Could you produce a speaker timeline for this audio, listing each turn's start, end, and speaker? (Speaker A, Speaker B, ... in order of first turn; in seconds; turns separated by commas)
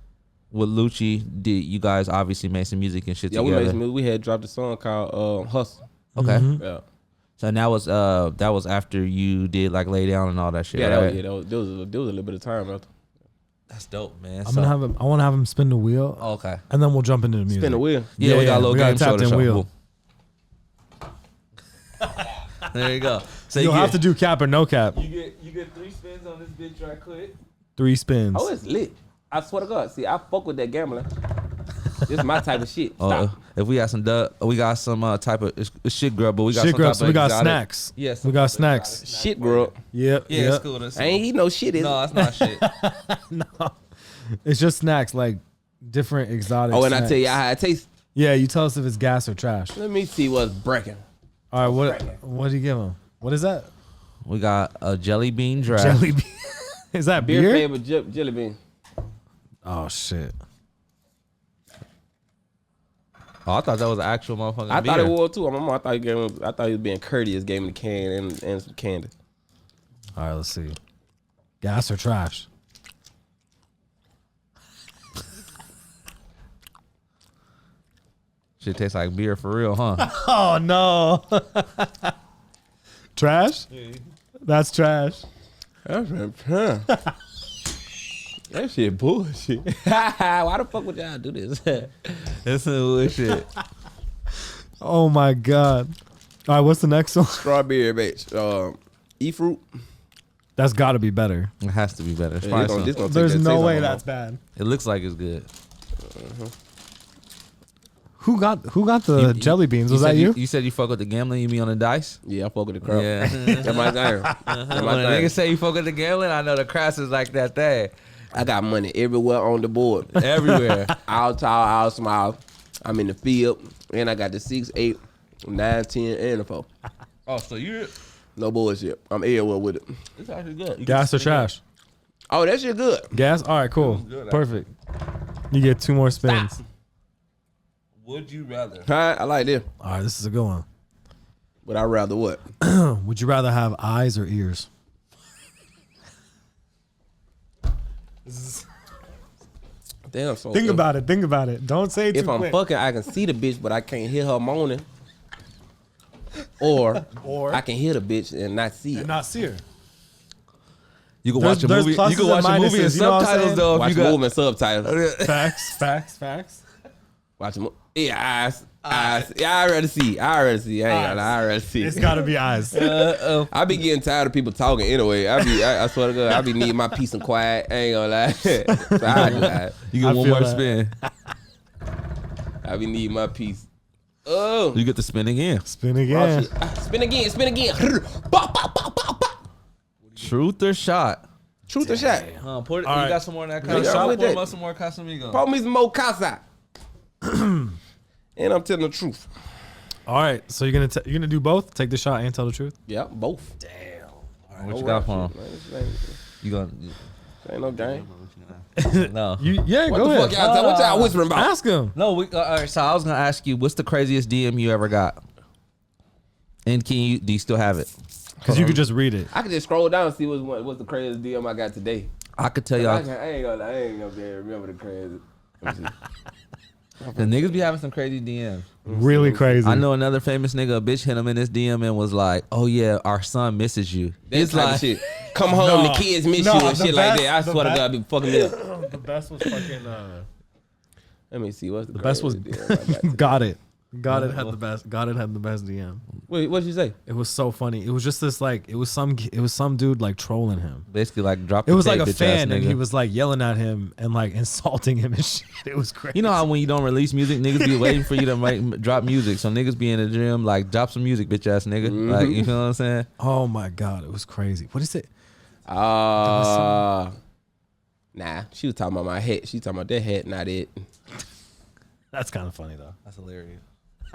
Speaker A: 0.5-3.8, Speaker B: 3.3-5.8, Speaker C: 6.1-6.6, Speaker A: 6.2-6.5, Speaker B: 6.6-6.8, Speaker A: 7.4-11.2, Speaker B: 10.7-12.9, Speaker A: 13.7-14.7, Speaker C: 14.4-19.6, Speaker A: 16.2-16.6, Speaker B: 17.5-18.1, Speaker A: 18.2-19.7, Speaker A: 22.6-24.0, Speaker C: 23.5-25.0, Speaker A: 24.9-27.4, Speaker C: 27.8-28.5, Speaker B: 28.3-31.1, Speaker B: 32.0-33.3, Speaker A: 33.0-39.7, Speaker C: 36.5-39.0, Speaker B: 39.0-39.8, Speaker C: 39.9-40.6, Speaker A: 40.3-41.2, Speaker B: 41.0-42.0, Speaker A: 41.8-42.6, Speaker C: 42.1-43.8, Speaker C: 44.4-47.4, Speaker B: 46.7-47.9, Speaker C: 48.1-49.8, Speaker B: 49.8-51.0, Speaker C: 51.5-53.7, Speaker B: 51.6-52.1, Speaker A: 54.3-56.0, Speaker C: 55.7-57.7, Speaker B: 57.2-58.6, Speaker C: 59.6-60.4, Speaker A: 63.5-65.1, Speaker B: 64.7-69.1, Speaker C: 70.2-70.8, Speaker C: 71.6-72.5, Speaker A: 78.6-80.1, Speaker C: 80.0-82.1, Speaker C: 83.2-83.7, Speaker A: 83.7-84.0, Speaker C: 84.4-85.2, Speaker B: 85.9-86.9, Speaker B: 88.5-92.3, Speaker A: 92.4-93.5, Speaker C: 94.8-95.9, Speaker C: 96.5-97.6, Speaker B: 97.4-99.6, Speaker C: 100.6-101.5, Speaker A: 101.6-103.0, Speaker B: 102.4-104.0, Speaker C: 103.0-104.4, Speaker A: 104.6-105.5, Speaker B: 106.0-106.5, Speaker C: 108.2-110.4, Speaker A: 109.1-112.2, Speaker B: 112.2-115.3, Speaker A: 112.8-113.9, Speaker C: 113.2-114.6, Speaker A: 114.4-117.9, Speaker B: 118.3-126.7, Speaker A: 120.1-121.0, Speaker A: 127.3-127.9, Speaker B: 128.4-129.9, Speaker A: 130.2-131.5, Speaker C: 130.8-131.6, Speaker B: 132.3-133.1, Speaker C: 133.1-134.7, Speaker A: 133.8-134.4, Speaker C: 135.5-136.6, Speaker A: 138.0-138.9, Speaker B: 138.8-139.7, Speaker C: 139.8-140.6, Speaker B: 141.6-142.4, Speaker C: 142.6-144.7, Speaker C: 148.3-148.7, Speaker B: 150.1-150.8, Speaker C: 150.5-152.6, Speaker B: 152.1-154.8, Speaker B: 156.6-159.1, Speaker C: 157.0-157.6, Speaker C: 158.9-159.6, Speaker A: 161.2-164.2, Speaker C: 161.3-163.7, Speaker B: 163.7-164.9, Speaker A: 164.8-165.7, Speaker C: 165.2-166.6, Speaker B: 167.4-179.8, Speaker A: 168.9-169.3, Speaker C: 170.9-172.8, Speaker A: 172.7-173.5, Speaker C: 178.8-181.1, Speaker A: 179.1-180.9, Speaker B: 182.6-183.7, Speaker B: 184.3-184.8, Speaker A: 184.7-185.6, Speaker C: 185.6-186.5, Speaker B: 186.1-189.3, Speaker A: 190.2-191.2, Speaker B: 191.7-192.3, Speaker C: 191.8-194.2, Speaker A: 192.4-195.4, Speaker B: 193.6-194.4, Speaker B: 195.3-196.4, Speaker C: 197.2-197.8, Speaker B: 198.4-199.3, Speaker C: 200.1-202.8, Speaker B: 202.9-203.6, Speaker C: 203.6-204.6, Speaker A: 204.6-205.3, Speaker B: 204.6-206.2, Speaker A: 206.4-207.0, Speaker B: 207.4-208.1, Speaker A: 207.7-209.6, Speaker C: 208.8-210.4, Speaker B: 209.9-211.5, Speaker A: 210.3-211.2, Speaker C: 211.3-211.9, Speaker A: 211.9-215.2, Speaker A: 216.7-217.9, Speaker C: 218.4-219.3, Speaker A: 218.4-218.8, Speaker B: 219.3-222.1, Speaker A: 222.4-223.1, Speaker B: 222.8-225.9, Speaker B: 227.0-227.6, Speaker A: 227.2-228.8, Speaker B: 228.8-229.6, Speaker C: 228.9-229.9, Speaker A: 229.6-234.9, Speaker B: 234.3-238.6, Speaker C: 235.3-240.3, Speaker B: 241.3-243.4, Speaker C: 241.9-246.0, Speaker A: 244.1-244.6, Speaker B: 246.3-246.9, Speaker C: 247.1-250.8, Speaker A: 250.9-252.8, Speaker C: 251.7-256.4, Speaker A: 256.1-263.1, Speaker C: 257.6-258.1, Speaker B: 261.8-262.5, Speaker C: 263.2-265.1, Speaker B: 265.7-267.1, Speaker C: 266.2-266.9, Speaker B: 268.1-270.9, Speaker C: 272.1-272.9, Speaker A: 273.1-273.6